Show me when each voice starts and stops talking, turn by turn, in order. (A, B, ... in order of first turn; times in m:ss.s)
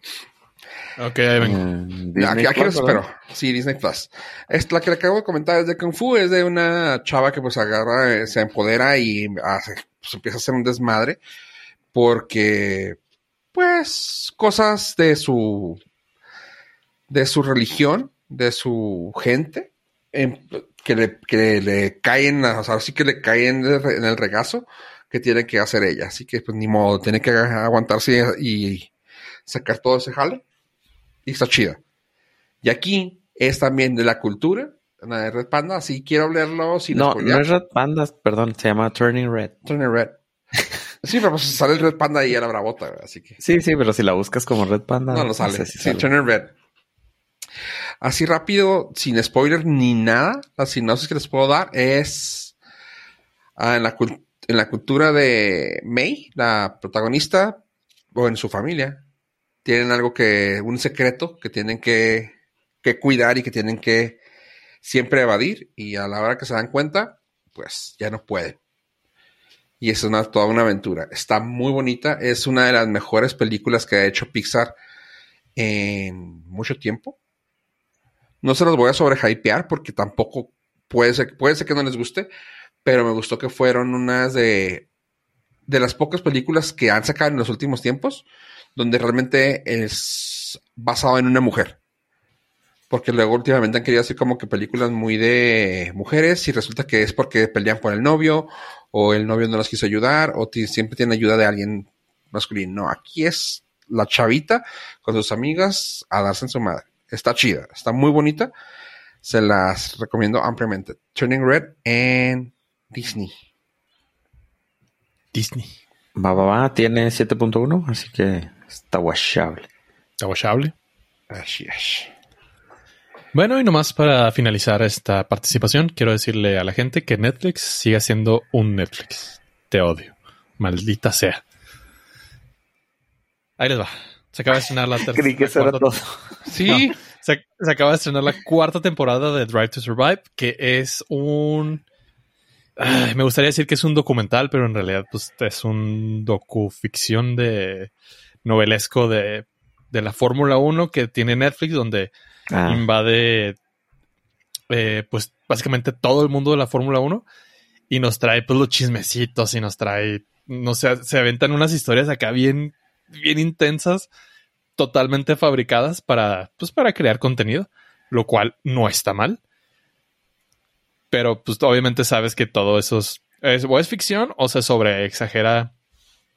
0:01.0-0:01.6 A
0:01.4-0:03.0 B
0:02.2-0:11.2 C
0:11.9-0:13.0 C
0:13.5-0:15.8 C
0:17.1-0:28.9 C
0:29.4-0:30.4 C
0:31.2-0:31.8 C
0:32.6-0:37.4 C
0:36.9-0:39.5 B
0:39.6-0:40.1 C
0:41.0-0:43.4 C
0:43.4-0:46.1 B
0:45.1-0:46.5 C
0:48.0-0:52.5 C
0:53.6-0:57.6 C
0:58.1-0:59.0 C
0:59.6-1:02.3 C
1:02.8-1:04.2 C
1:04.8-1:08.6 C
1:09.8-1:14.7 C
1:15.6-1:17.2 C
1:18.4-1:22.3 C
1:22.8-1:24.8 C
1:25.7-1:31.8 C
1:32.9-1:48.5 C
1:49.2-1:53.3 C
1:55.3-1:55.7 A
1:56.2-1:59.7 B
2:00.2-2:00.7 A
2:01.3-2:02.1 C
2:03.3-2:11.4 A
2:13.6-2:15.8 A
2:15.1-2:16.4 B
2:16.4-2:17.0 C
2:16.6-2:21.8 A
2:22.8-2:27.9 A
2:28.4-2:32.1 A
2:32.5-2:32.8 B
2:32.6-2:33.6 A
2:34.7-2:37.2 A
2:37.9-2:44.1 A
2:44.8-2:49.4 A
2:51.1-2:55.7 A